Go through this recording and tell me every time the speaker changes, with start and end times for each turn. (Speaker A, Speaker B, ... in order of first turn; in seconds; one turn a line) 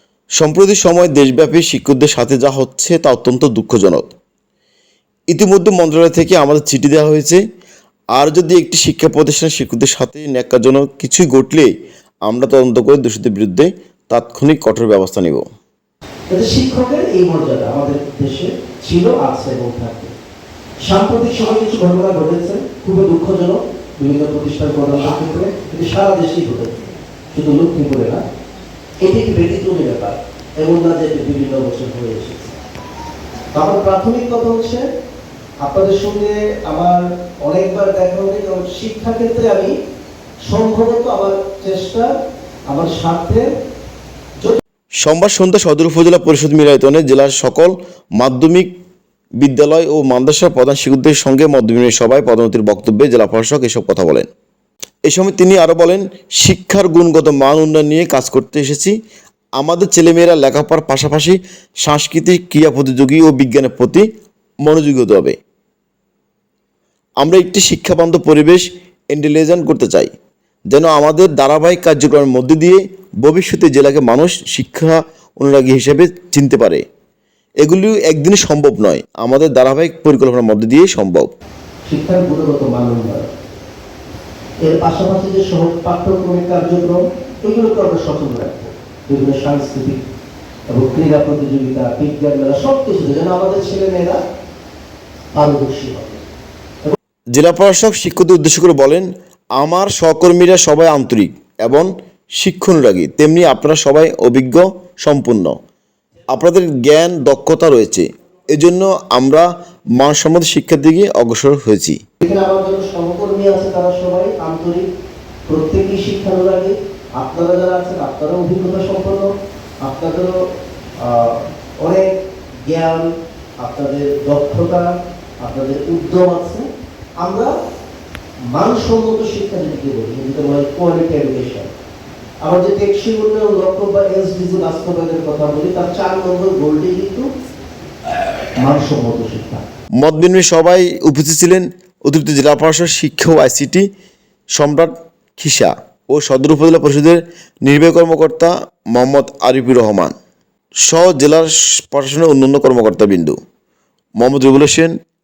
Speaker A: 0.4-4.1
Speaker A: 5.3-7.4
Speaker A: 8.1-11.7
Speaker A: 12.3-15.4
Speaker B: 16.3-20.1
Speaker B: 20.8-26.7
Speaker B: 27.3-28.2
Speaker B: 29.0-32.6
Speaker B: 33.5-34.9
Speaker B: 35.6-39.7
Speaker B: 40.5-42.1
Speaker B: 42.7-43.5
Speaker A: 45.0-48.7
Speaker A: 49.4-54.3
Speaker A: 55.1-58.9
Speaker A: 59.6-64.0
Speaker A: 64.6-65.3
Speaker A: 67.2-70.1
Speaker A: 70.7-76.8
Speaker A: 77.6-81.3
Speaker B: 81.9-83.3
Speaker B: 84.6-90.0
Speaker B: 90.7-94.2
Speaker B: 95.3-96.2
Speaker A: 97.3-105.5
Speaker A: 106.3-112.0
Speaker B: 112.2-114.8
Speaker B: 115.5-119.3
Speaker B: 119.8-120.3
Speaker B: 121.0-122.1
Speaker B: 122.7-124.9
Speaker B: 125.4-126.7
Speaker B: 127.2-127.5
Speaker B: 128.5-131.7
Speaker B: 132.4-137.3
Speaker B: 138.6-139.6
Speaker A: 140.0-143.8
Speaker A: 144.6-150.1
Speaker A: 150.8-153.3
Speaker A: 154.2-154.9